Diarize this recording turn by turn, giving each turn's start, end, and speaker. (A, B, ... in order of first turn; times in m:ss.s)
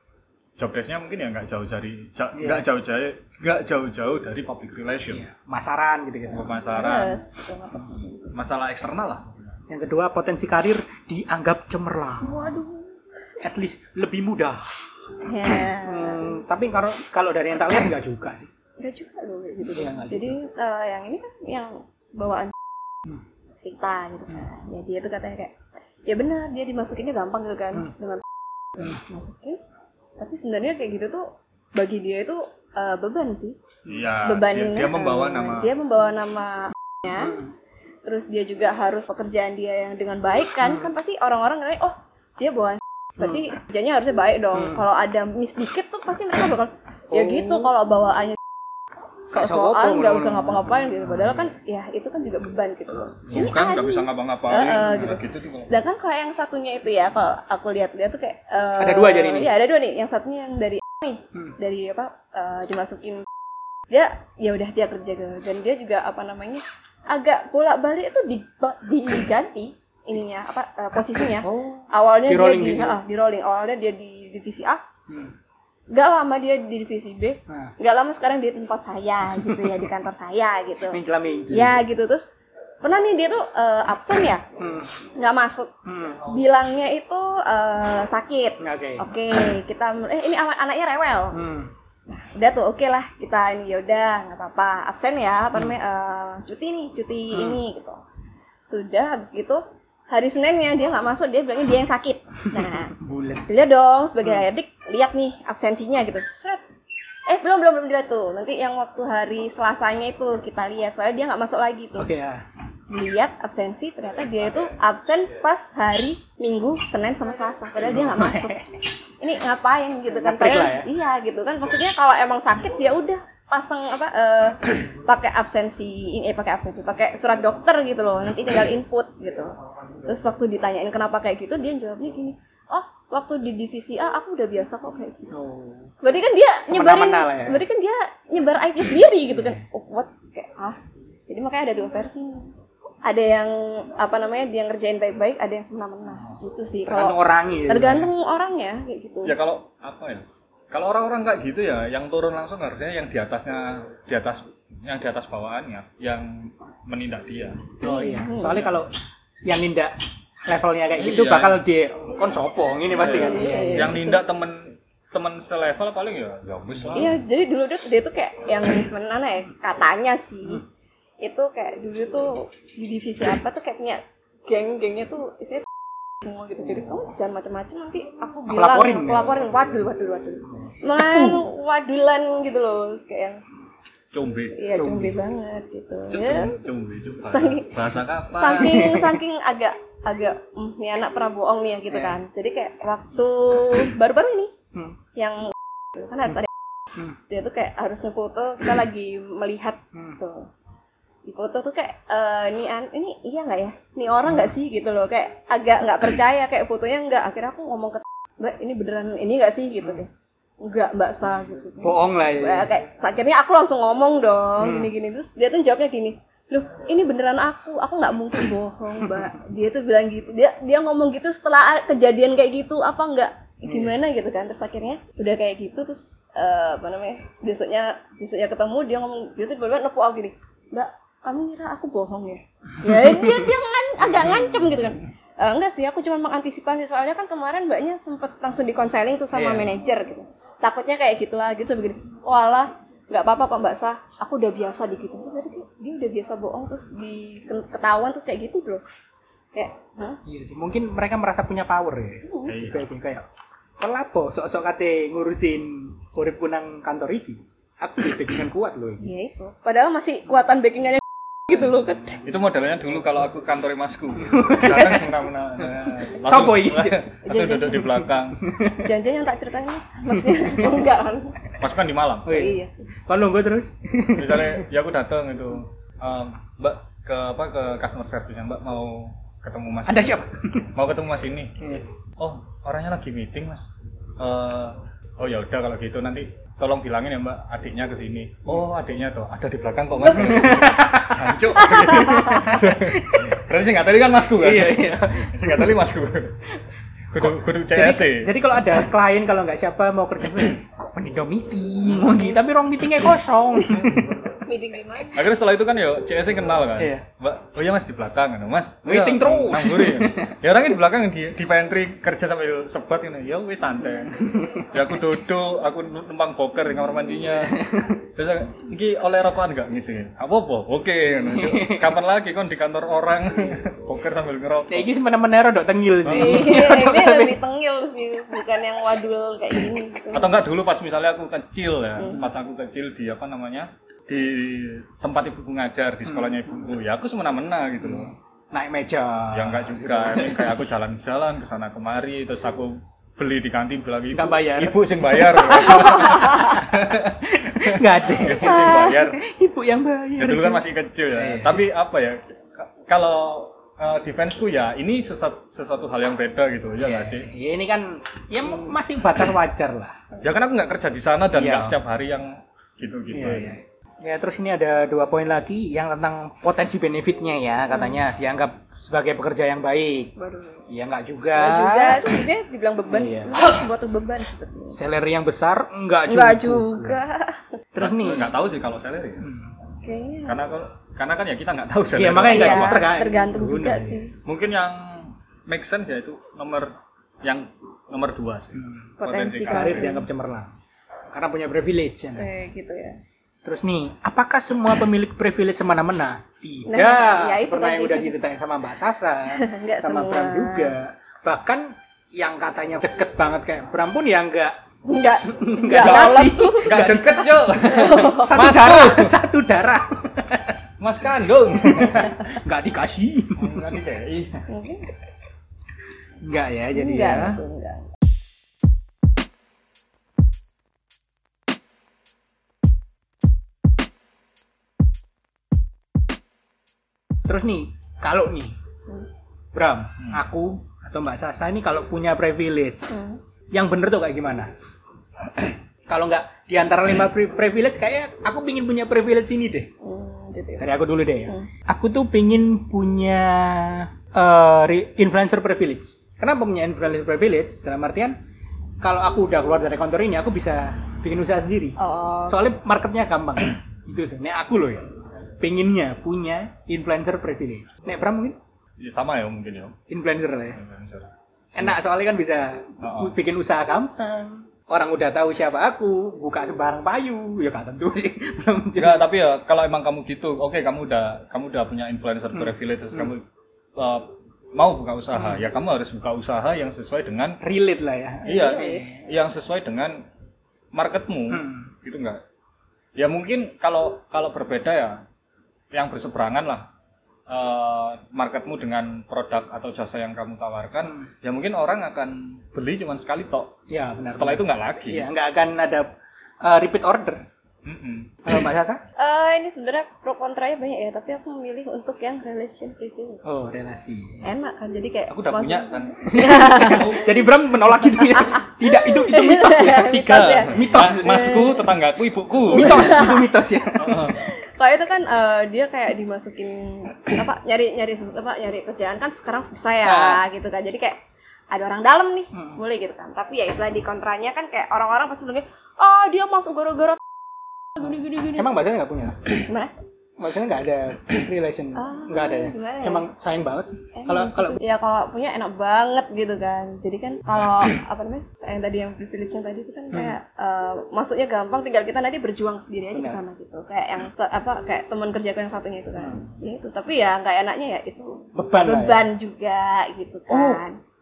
0:00.6-0:05.2 A
0:02.3-0:02.6 B
0:05.1-0:06.6 B
0:06.3-0:07.2 A
0:06.6-0:08.3 C
0:08.3-0:09.6 A
0:09.7-0:12.6 B
0:12.2-0:13.0 C
0:13.4-0:14.7 B
0:15.2-0:16.2 C
0:15.8-0:18.5 B
0:18.8-0:22.5 C
0:19.7-0:20.4 B
0:23.6-0:25.5 C
0:26.0-0:28.2 C
0:28.8-0:29.6 C
0:30.2-0:33.6 C
0:33.9-0:35.7 A
0:34.2-0:37.4 C
0:37.1-0:37.5 B
0:38.0-0:48.4 C
0:40.6-0:40.9 B
0:43.2-0:43.4 B
0:44.5-0:44.8 B
0:47.1-0:47.7 B
0:49.3-0:51.5 B
0:49.3-1:03.2 C
0:53.3-0:55.7 A
0:58.8-0:59.5 B
1:03.9-1:14.8 C
1:11.2-1:13.0 B
1:15.1-1:15.4 B
1:15.9-1:21.0 C
1:17.5-1:17.7 B
1:19.4-1:19.8 B
1:20.8-1:21.8 B
1:21.5-1:22.3 C
1:22.8-1:24.4 C
1:24.6-1:24.9 B
1:25.2-1:31.4 C
1:25.8-1:26.3 B
1:28.6-1:29.0 B
1:31.3-1:31.7 B
1:32.1-1:38.0 C
1:37.3-1:37.6 B
1:38.7-1:42.9 C
1:42.5-1:43.4 B
1:43.4-1:46.6 C
1:47.3-1:52.1 C
1:52.0-1:52.4 B
1:52.9-1:58.6 C
1:57.8-1:58.7 B
1:59.2-2:09.5 C
2:00.1-2:00.9 B
2:10.0-2:15.3 C
2:15.3-2:15.9 B
2:16.0-2:22.5 C
2:16.7-2:17.6 B
2:23.0-2:29.3 C
2:26.8-2:28.1 B
2:29.2-2:37.8 A
2:37.8-2:44.0 B
2:37.8-2:38.6 C
2:41.0-2:41.6 A
2:42.9-2:47.1 A
2:43.0-2:44.2 C
2:46.7-2:47.2 B
2:46.9-2:50.6 C
2:51.2-2:55.7 C
2:56.2-3:03.4 C
2:58.5-2:59.5 B
3:00.9-3:01.4 B
3:04.1-3:04.6 A
3:04.5-3:06.6 C
3:04.7-3:05.2 B
3:06.1-3:08.9 A
3:07.2-3:07.8 C
3:08.3-3:14.5 C
3:08.5-3:09.2 B
3:11.9-3:12.2 B
3:15.1-3:16.5 C
3:17.3-3:20.5 C
3:19.9-3:20.2 B
3:21.2-4:08.8 C
3:31.8-3:32.7 B
3:34.6-3:34.9 B
3:43.6-3:44.0 B
3:52.9-3:53.4 B
3:59.3-3:59.7 B
4:09.5-4:10.2 C
4:10.2-4:13.3 B
4:12.3-4:12.5 C
4:12.4-4:12.9 A
4:13.8-4:19.1 B
4:19.0-4:22.2 C
4:22.2-4:28.4 A
4:24.2-4:25.1 B
4:25.6-4:27.0 B
4:27.2-4:27.9 C
4:27.9-4:28.9 B
4:28.8-4:31.4 C
4:30.1-4:30.9 B
4:31.6-4:32.5 A
4:32.2-4:34.7 B
4:32.3-4:32.9 C
4:34.1-4:40.2 A
4:39.8-4:40.7 B
4:40.7-4:41.6 A
4:41.6-4:41.8 B
4:42.2-4:56.5 A
4:50.0-4:53.4 B
4:51.9-4:52.5 C
4:54.2-4:55.7 B
4:57.1-4:58.3 A
4:57.1-5:04.0 B
5:03.6-5:05.3 C
5:03.7-5:04.0 A
5:05.1-5:24.9 A
5:06.8-5:07.0 B
5:08.8-5:10.4 B
5:14.1-5:14.7 B
5:17.4-5:18.0 B
5:21.2-5:21.9 B
5:24.7-5:27.4 B
5:26.0-5:26.5 A
5:26.1-5:30.4 C
5:30.1-5:38.1 A
5:36.0-5:36.7 B
5:37.8-5:40.6 B
5:39.3-5:49.2 A
5:44.1-5:51.6 B
5:48.4-5:49.0 C
5:50.2-5:57.3 A
5:56.8-6:00.0 B
6:00.2-6:03.6 A
6:01.3-6:01.8 B
6:03.1-6:10.1 B
6:10.2-6:10.7 C
6:10.7-6:12.2 B
6:11.4-6:14.8 C
6:12.9-6:13.6 B
6:14.7-6:17.0 B
6:16.1-6:17.6 C
6:17.7-6:18.3 B
6:17.8-6:19.3 A
6:19.2-6:19.5 B
6:19.8-6:20.4 C
6:20.2-6:22.9 A
6:21.9-6:24.0 B
6:22.3-6:24.1 C
6:24.2-6:29.9 A
6:28.5-6:28.9 B
6:29.0-6:30.1 C
6:29.4-6:30.5 B
6:31.1-6:32.3 B
6:32.2-6:33.0 C
6:33.4-6:44.6 B
6:36.7-6:38.2 C
6:39.3-6:40.7 C
6:44.8-6:46.7 C
6:45.3-6:50.6 B
6:45.7-6:49.2 A
6:47.6-6:48.4 C
6:50.8-6:52.2 A
6:51.5-6:53.7 B
6:53.4-6:54.5 A
6:54.5-6:54.9 C
6:56.2-6:57.4 B
6:56.7-6:57.9 C
7:07.2-7:08.6 B
7:09.5-7:13.0 B
7:12.9-7:13.2 C
7:13.5-7:14.5 B
7:15.9-7:19.7 B
7:19.8-7:20.7 C
7:20.6-7:28.2 B
7:28.8-7:34.9 B
7:31.8-7:32.4 C
7:35.4-7:38.4 B
7:38.8-7:39.8 A
7:39.9-7:40.6 B
7:40.5-7:41.8 A
7:41.5-7:49.0 B
7:42.8-7:43.1 A
7:48.8-7:53.2 A
7:52.3-7:53.1 B
7:53.8-7:57.4 A
7:55.1-7:55.5 B
7:57.4-7:59.0 B
7:58.2-7:58.8 C
7:58.2-8:00.0 A
8:00.7-8:02.2 A
8:01.3-8:01.7 B
8:03.0-8:05.0 A
8:05.7-8:06.7 A
8:07.3-8:13.5 A
8:10.8-8:11.1 B
8:13.7-8:15.9 B
8:14.1-8:15.1 A
8:16.4-8:17.3 B
8:17.6-8:18.2 A
8:18.2-8:18.8 B
8:19.0-8:23.4 C
8:23.2-8:24.2 B
8:24.2-8:27.0 C
8:25.1-8:27.1 A
8:26.0-8:31.5 B
8:28.2-8:31.6 C
8:29.9-8:33.1 A
8:32.5-8:34.1 B
8:32.5-8:33.3 C
8:33.7-8:34.2 A
8:33.9-8:41.0 C
8:39.8-8:40.2 B
8:41.5-8:47.0 C
8:42.3-8:42.6 B
8:47.7-8:48.5 C
8:48.3-8:49.3 B
8:49.4-8:49.7 C
8:50.2-8:54.6 B
8:51.8-8:53.1 C
8:53.9-9:10.8 C
8:59.9-9:00.2 B
9:02.9-9:03.2 B
9:06.0-9:06.2 B
9:08.3-9:09.1 B
9:10.3-9:10.6 B